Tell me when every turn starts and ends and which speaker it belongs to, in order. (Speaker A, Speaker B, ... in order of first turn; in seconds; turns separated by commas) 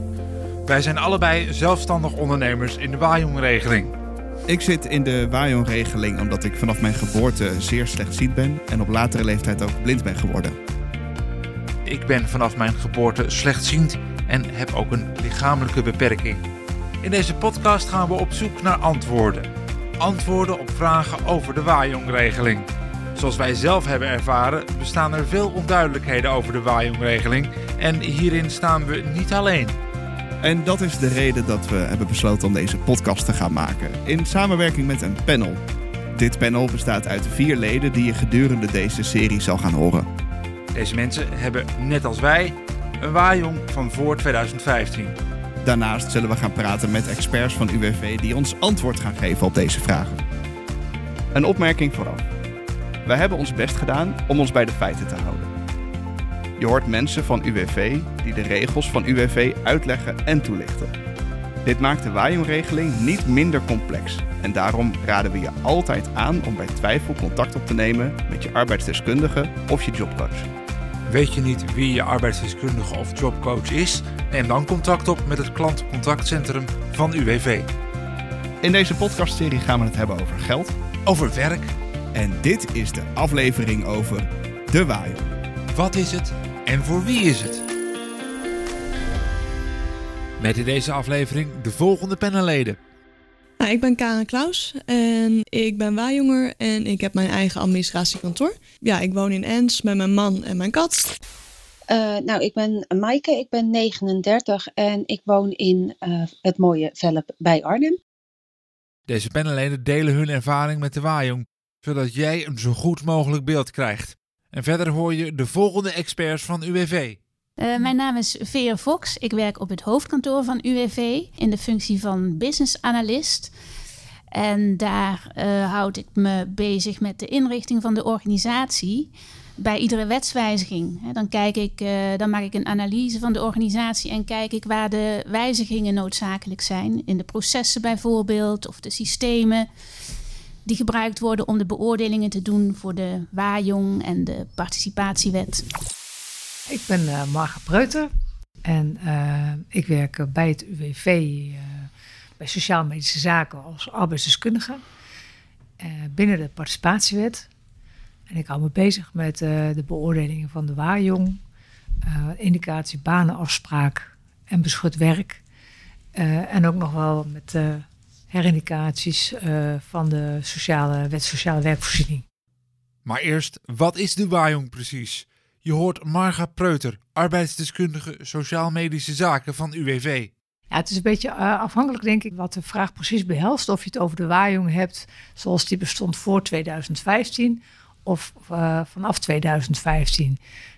Speaker A: 0.7-3.9, Speaker B: 4.5-10.6, Speaker A: 11.8-16.4, Speaker A: 17.0-19.5, Speaker A: 20.0-29.7, Speaker B: 30.4-35.6, Speaker B: 36.1-40.1, Speaker A: 40.7-45.1, Speaker B: 45.6-50.2, Speaker B: 51.3-52.2, Speaker B: 53.0-55.5, Speaker B: 56.6-60.9, Speaker B: 61.6-70.5, Speaker A: 71.1-77.7, Speaker B: 78.6-80.7, Speaker A: 81.0-81.7, Speaker B: 82.1-85.3, Speaker A: 85.7-87.6, Speaker A: 90.4-92.8, Speaker C: 93.6-101.1, Speaker D: 101.9-108.0, Speaker A: 109.1-117.2, Speaker E: 117.6-123.5, Speaker E: 124.3-139.6, Speaker E: 140.7-145.6, Speaker F: 146.7-148.1, Speaker F: 148.6-151.9, Speaker F: 152.4-154.8, Speaker F: 155.8-157.5, Speaker F: 158.3-161.4, Speaker F: 162.1-165.4, Speaker F: 166.1-172.2, Speaker A: 173.0-180.3, Speaker F: 180.7-190.4